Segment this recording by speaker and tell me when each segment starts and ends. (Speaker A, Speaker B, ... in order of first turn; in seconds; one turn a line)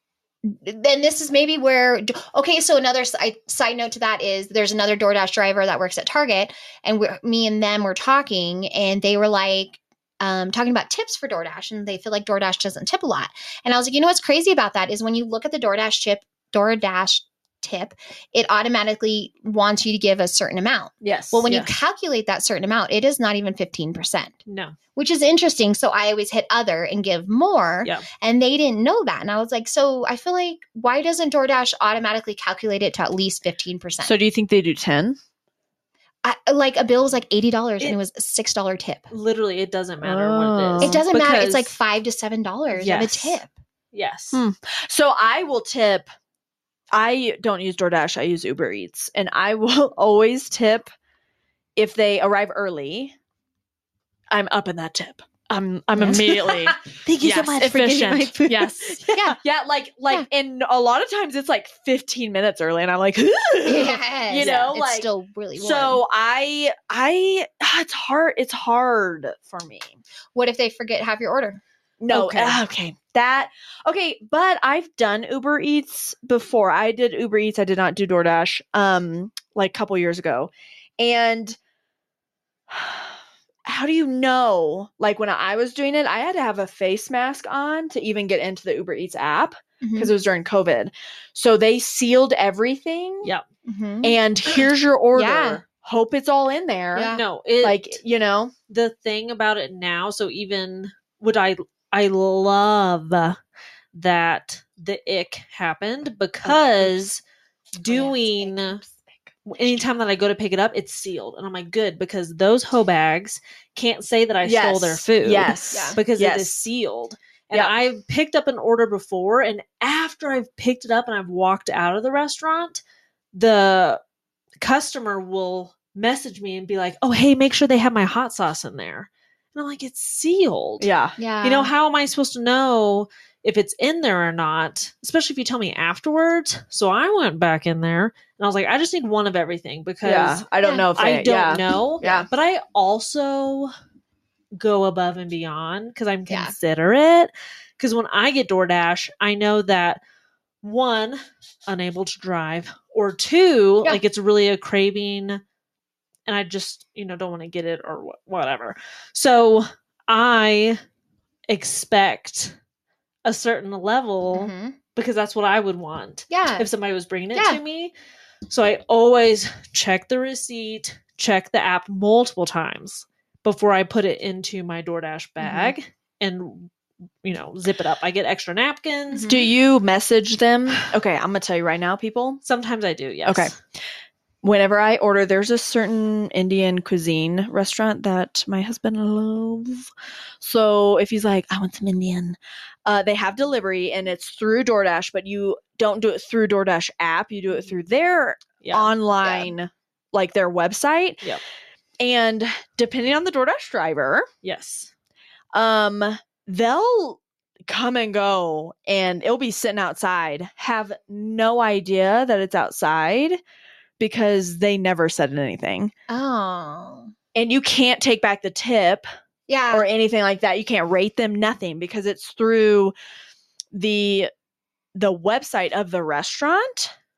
Speaker A: 0.4-24.4
Speaker B: 21.0-21.5
Speaker C: 21.5-21.7
Speaker C: 24.4-24.8
Speaker A: 24.9-34.1
Speaker B: 34.0-35.2
Speaker A: 36.2-39.1
Speaker C: 39.1-41.7
Speaker B: 40.0-41.1
Speaker A: 40.8-43.5
Speaker C: 42.7-43.4
Speaker C: 43.9-44.4
Speaker B: 44.3-46.1
Speaker B: 46.9-50.9
Speaker B: 51.8-53.1
Speaker B: 54.3-70.0
Speaker C: 56.1-59.3
Speaker A: 63.6-66.0
Speaker C: 64.3-64.7
Speaker A: 70.3-71.6
Speaker B: 72.0-81.6
Speaker C: 72.1-72.6
Speaker B: 82.7-93.3
Speaker A: 89.8-90.1
Speaker A: 93.6-94.2
Speaker B: 94.0-98.5
Speaker A: 95.1-95.6
Speaker A: 96.9-97.2
Speaker C: 97.1-98.0
Speaker C: 98.7-103.4
Speaker C: 103.9-107.2
Speaker B: 106.4-107.1
Speaker C: 107.8-108.8
Speaker A: 107.8-108.7
Speaker B: 108.8-109.8
Speaker C: 109.5-122.8
Speaker B: 114.4-116.7
Speaker A: 115.7-116.0
Speaker C: 123.3-124.0
Speaker C: 124.6-130.9
Speaker B: 130.8-131.2
Speaker A: 131.2-131.7
Speaker C: 131.4-140.4
Speaker B: 140.0-142.3
Speaker C: 140.9-143.7
Speaker C: 144.6-150.0
Speaker A: 146.3-146.5
Speaker C: 150.6-155.4
Speaker C: 156.3-160.8
Speaker C: 161.5-162.5
Speaker C: 163.2-167.9
Speaker A: 164.3-164.8
Speaker A: 166.3-166.7
Speaker A: 167.3-167.6
Speaker C: 168.5-176.7
Speaker A: 175.4-175.7
Speaker C: 177.2-179.3
Speaker A: 179.1-179.5
Speaker B: 179.3-182.4
Speaker C: 182.4-183.5
Speaker B: 183.2-183.5
Speaker B: 184.4-189.9
Speaker B: 190.4-201.3
Speaker C: 198.6-198.9
Speaker B: 202.0-204.3
Speaker C: 204.4-204.9
Speaker B: 205.5-213.4
Speaker B: 214.0-215.9
Speaker A: 216.1-217.1
Speaker B: 217.3-219.1
Speaker A: 219.5-219.8
Speaker B: 219.7-222.9
Speaker B: 223.7-224.3
Speaker B: 224.9-226.9